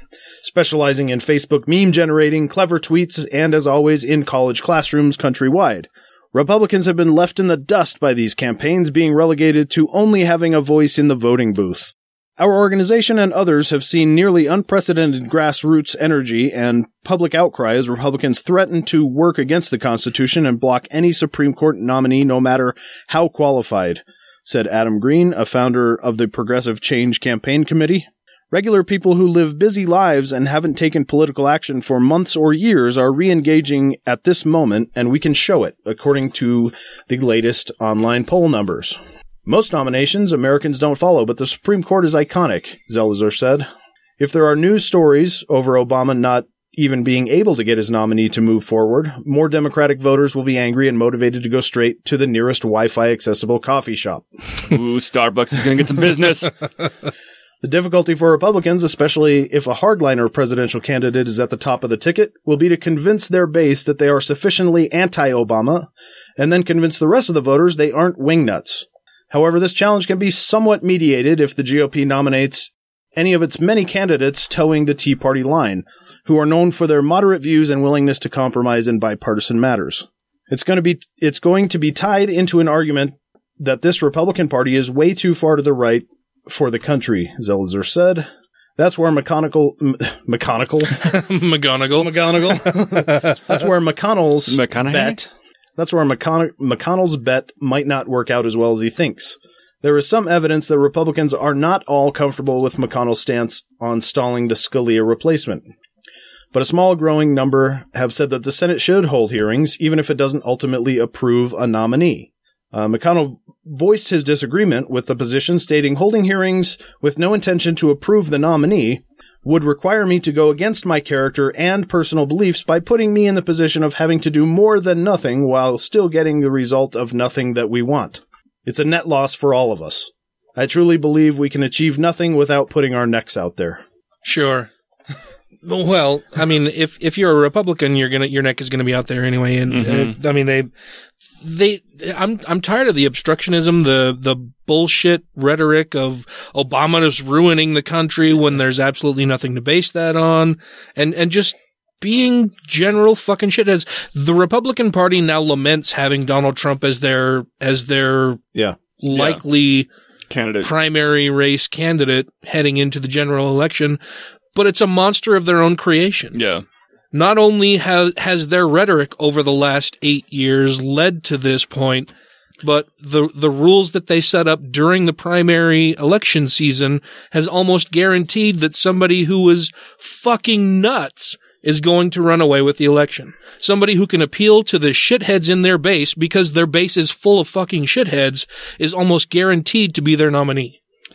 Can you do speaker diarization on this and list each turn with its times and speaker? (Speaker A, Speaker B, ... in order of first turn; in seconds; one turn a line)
Speaker A: 0.4-43.7
Speaker A: 44.2-54.3
Speaker B: 54.6-56.5
Speaker A: 57.6-90.9
Speaker C: 91.0-93.4
Speaker A: 92.0-95.3
Speaker B: 94.5-95.2
Speaker A: 95.8-105.7
Speaker A: 106.5-133.8
Speaker C: 134.2-134.7
Speaker C: 135.7-140.7
Speaker B: 139.7-140.2
Speaker C: 141.4-158.4
Speaker C: 159.0-159.9
Speaker B: 159.1-159.4
Speaker B: 160.3-160.7
Speaker C: 160.6-164.0
Speaker C: 164.6-166.4
Speaker B: 166.3-166.6
Speaker C: 167.1-172.1
Speaker C: 172.6-190.8